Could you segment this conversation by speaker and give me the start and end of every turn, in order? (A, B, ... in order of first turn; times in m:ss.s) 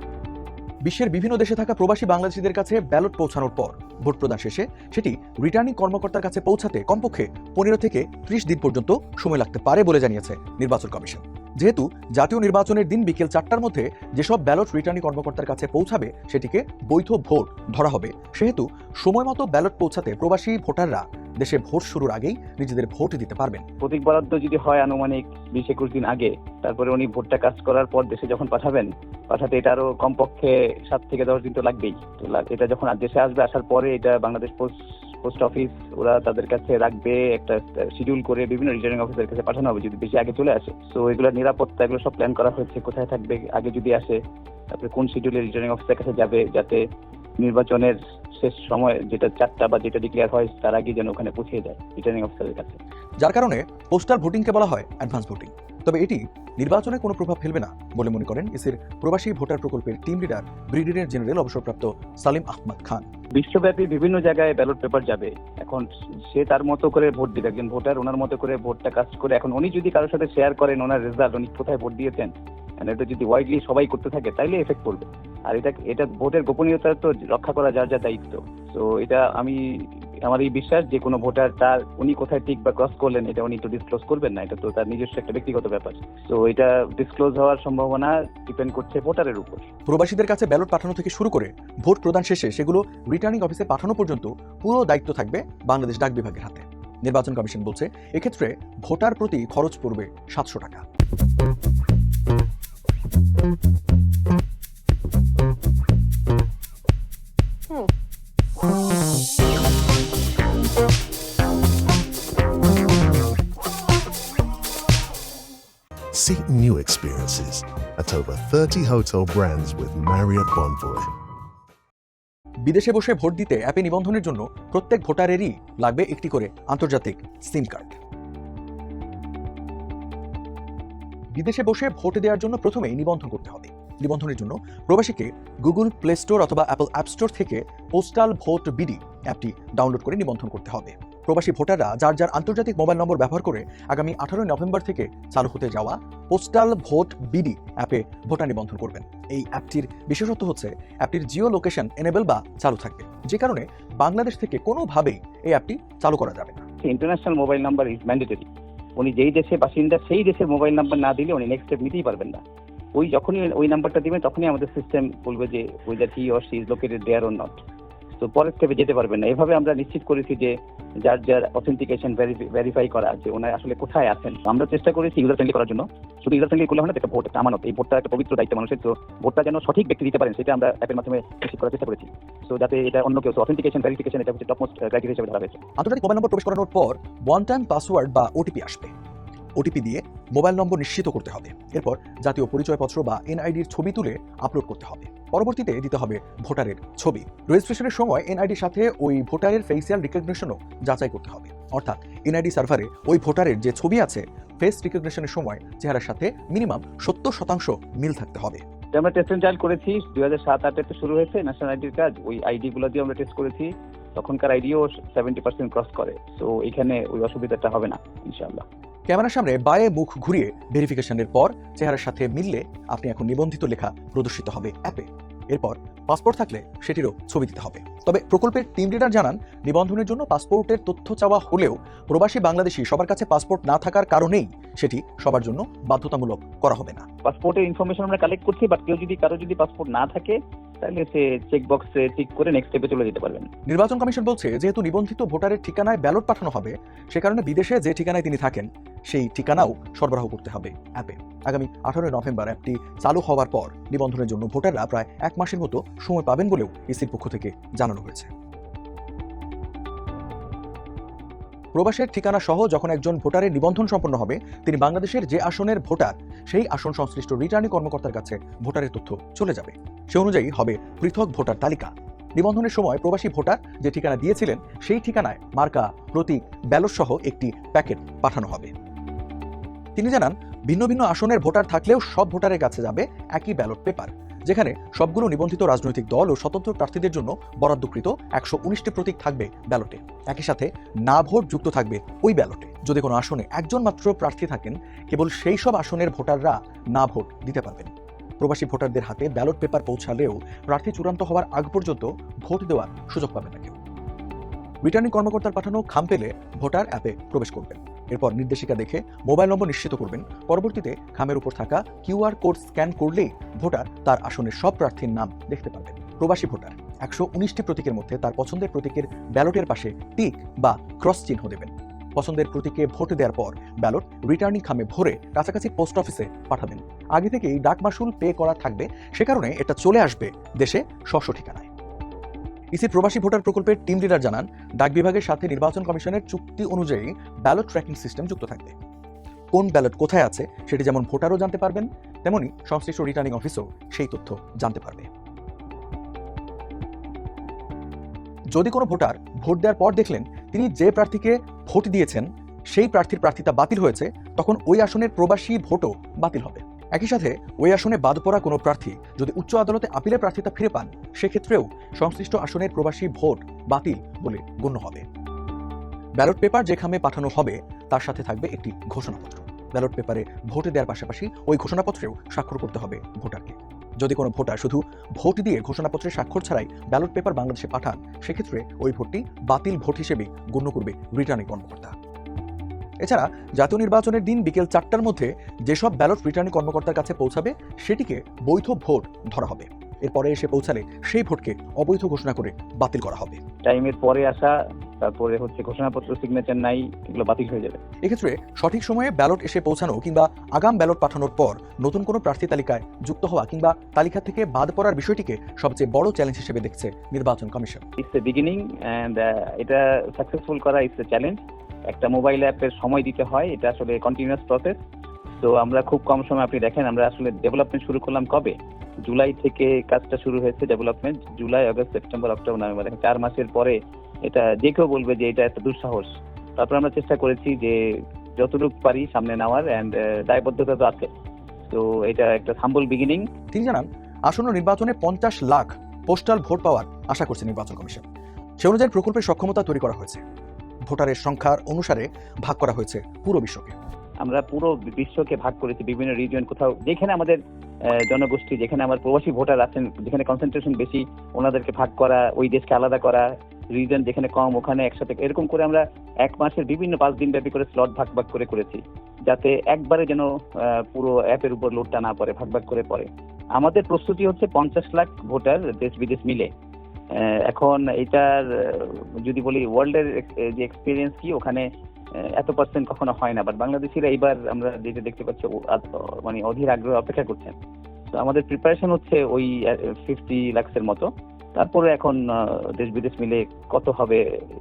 0:00.8-0:23.6 A
0:23.8-0:44.2 B
0:44.7-0:46.8 B
0:47.4-0:52.8 B
0:53.2-1:03.0 A
1:03.3-1:29.7 B
1:29.9-1:40.8 A
1:56.1-2:01.1 C
2:02.7-2:08.0 A
2:11.4-2:36.6 A
2:36.8-2:38.5 B
2:39.0-2:42.4 B
2:43.0-2:47.6 B
2:48.2-3:05.6 B
3:05.8-3:08.9 A
3:09.6-3:28.6 A
3:28.9-3:38.6 B
3:39.1-3:57.0 A
3:57.2-4:03.5 B
4:03.7-4:18.3 A
4:21.8-4:38.7 A
4:40.0-5:03.8 A
5:04.8-5:31.7 A
5:32.7-5:38.8 A
5:39.5-5:45.1 A
5:48.5-6:05.1 A
6:06.2-6:21.9 A
6:23.0-6:33.4 A
6:33.6-6:37.8 B
6:38.0-6:47.8 A
6:48.0-6:54.8 B
6:55.4-7:11.1 B
7:11.7-7:13.3 B
7:13.5-7:18.0 A
7:18.6-7:20.2 A
7:20.9-7:23.8 A
7:24.2-7:46.5 B
7:47.1-7:51.7 B
7:52.2-7:57.6 B
7:58.1-8:04.2 B